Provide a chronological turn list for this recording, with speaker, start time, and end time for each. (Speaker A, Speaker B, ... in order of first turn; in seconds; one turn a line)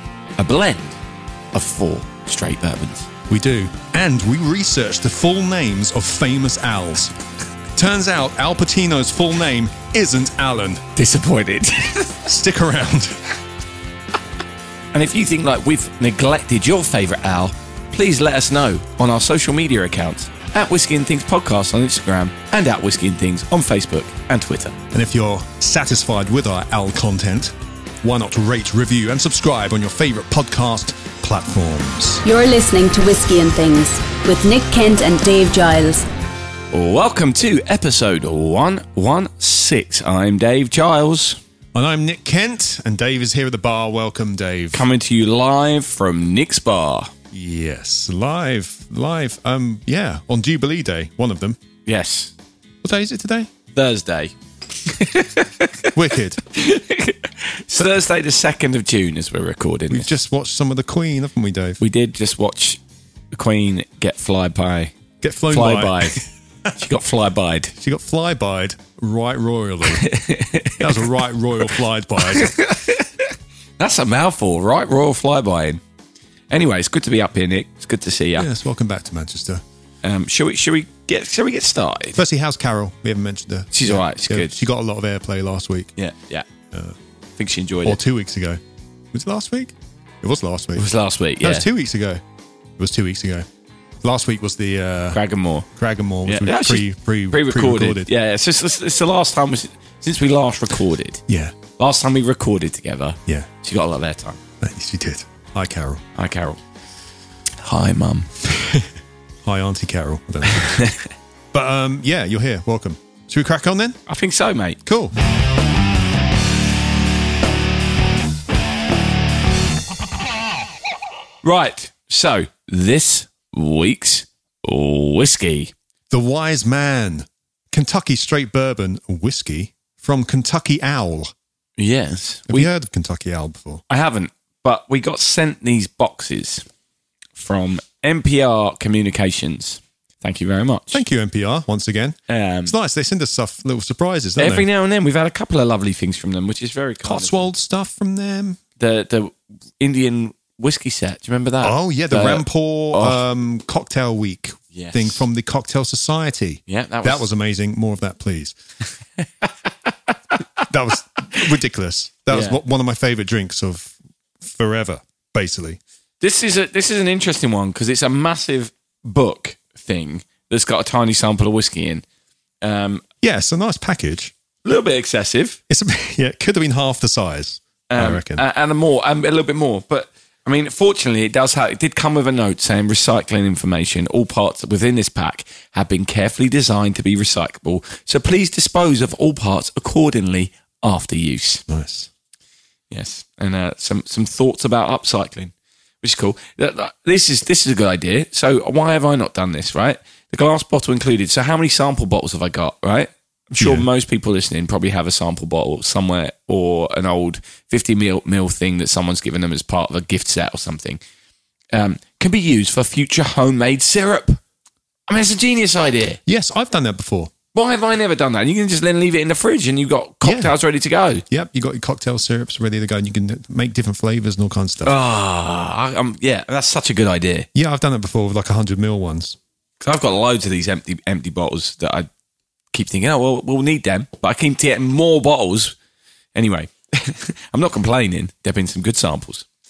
Speaker A: 0.4-1.0
Speaker A: 1.5-3.1
Speaker B: 3.3-7.2
Speaker B: 7.8-10.9
Speaker A: 11.0-12.2
Speaker B: 12.2-13.2
Speaker A: 14.9-24.8
Speaker B: 24.9-32.2
Speaker C: 32.2-36.1
Speaker A: 36.7-41.4
Speaker B: 41.7-44.9
Speaker A: 44.7-47.1
Speaker B: 47.3-51.6
Speaker A: 51.9-52.3
Speaker B: 52.8-53.5
Speaker A: 53.7-55.9
Speaker B: 55.9-56.4
Speaker A: 56.5-60.1
Speaker B: 59.9-61.8
Speaker A: 61.8-62.8
Speaker A: 63.3-64.9
Speaker B: 65.2-66.2
Speaker A: 65.5-66.2
Speaker A: 66.8-67.7
Speaker B: 67.8-70.1
Speaker A: 69.9-71.0
Speaker B: 70.8-72.6
Speaker A: 72.2-75.8
Speaker A: 76.5-78.5
Speaker B: 78.4-79.6
Speaker A: 80.0-82.2
Speaker B: 82.1-85.9
Speaker A: 83.7-84.6
Speaker A: 86.0-86.5
Speaker B: 86.7-87.0
Speaker A: 87.4-88.0
Speaker B: 87.8-88.6
Speaker B: 89.1-90.9
Speaker A: 90.8-91.7
Speaker B: 91.4-92.2
Speaker B: 92.8-93.5
Speaker B: 94.0-95.2
Speaker A: 95.1-95.7
Speaker B: 95.7-98.1
Speaker A: 96.2-101.2
Speaker B: 101.3-101.6
Speaker A: 101.8-104.4
Speaker B: 104.6-106.0
Speaker A: 106.2-106.6
Speaker A: 107.6-108.3
Speaker B: 108.5-108.9
Speaker B: 109.4-110.9
Speaker A: 110.5-111.1
Speaker B: 111.5-114.0
Speaker A: 114.1-114.8
Speaker B: 114.8-115.1
Speaker A: 121.4-125.7
Speaker B: 126.1-131.3
Speaker A: 131.8-132.7
Speaker B: 132.5-133.8
Speaker A: 133.9-136.6
Speaker A: 137.4-141.0
Speaker B: 140.9-144.7
Speaker A: 142.3-142.7
Speaker A: 144.4-147.5
Speaker B: 147.0-148.6
Speaker A: 148.8-153.2
Speaker B: 151.6-158.6
Speaker A: 154.7-155.2
Speaker A: 156.7-157.3
Speaker A: 159.2-159.5
Speaker B: 160.6-165.8
Speaker A: 162.3-162.6
Speaker A: 166.2-172.1
Speaker A: 172.6-173.0
Speaker B: 173.2-174.3
Speaker A: 174.6-175.6
Speaker B: 175.7-178.4
Speaker A: 177.9-191.7
Speaker B: 191.7-192.1
Speaker A: 192.9-211.0
Speaker B: 203.6-203.9
Speaker A: 211.7-214.4
Speaker A: 215.1-216.2
Speaker B: 216.3-217.3
Speaker A: 217.5-221.2
Speaker B: 220.2-220.5
Speaker B: 221.3-225.0
Speaker A: 224.8-227.5
Speaker B: 227.5-229.4
Speaker A: 229.8-232.1
Speaker A: 232.7-235.8
Speaker A: 236.3-239.4